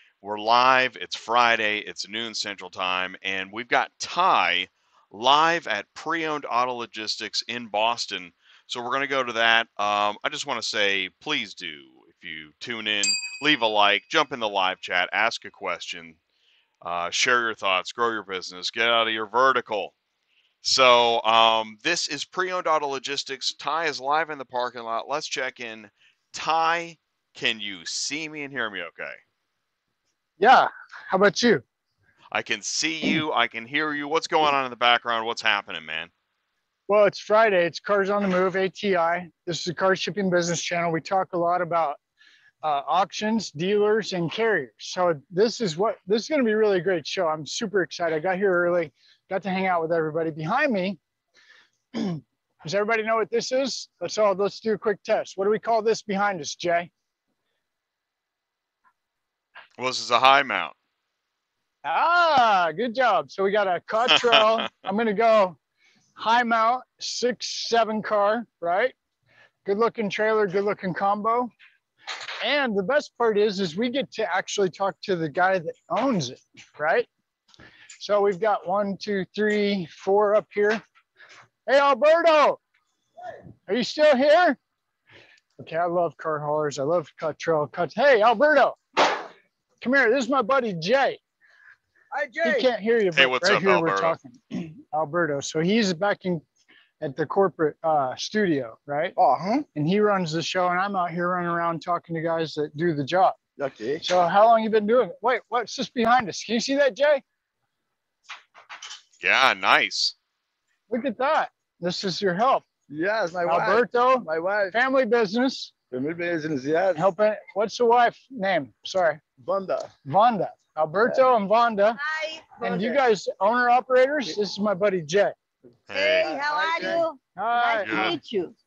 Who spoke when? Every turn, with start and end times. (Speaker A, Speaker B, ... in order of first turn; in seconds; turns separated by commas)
Speaker A: 0.2-16.2, Speaker A: 16.8-19.9, Speaker A: 20.6-29.2, Speaker B: 30.4-31.6, Speaker A: 32.3-36.1, Speaker B: 36.9-42.0, Speaker B: 42.6-51.0, Speaker B: 51.9-56.9, Speaker A: 59.8-60.8, Speaker B: 61.8-65.6, Speaker B: 66.2-68.9, Speaker B: 69.7-71.5, Speaker B: 72.4-77.1, Speaker B: 78.0-80.8, Speaker B: 81.7-82.6, Speaker B: 83.7-84.6, Speaker B: 85.6-89.2, Speaker B: 89.8-91.2, Speaker C: 92.1-92.7, Speaker B: 92.4-96.4, Speaker A: 93.1-94.2, Speaker B: 97.0-99.2, Speaker C: 99.2-99.7, Speaker B: 99.8-103.4, Speaker C: 103.6-104.0, Speaker B: 104.0-107.2, Speaker A: 109.2-110.2, Speaker B: 110.9-112.7, Speaker C: 112.9-114.8, Speaker B: 113.4-115.7, Speaker C: 115.9-117.0, Speaker B: 117.0-119.2, Speaker C: 119.4-119.9, Speaker B: 120.1-122.0, Speaker D: 122.0-123.0, Speaker B: 122.6-125.3, Speaker A: 125.9-126.4, Speaker D: 125.9-128.6, Speaker C: 126.2-127.1, Speaker B: 127.4-128.1, Speaker A: 127.8-128.2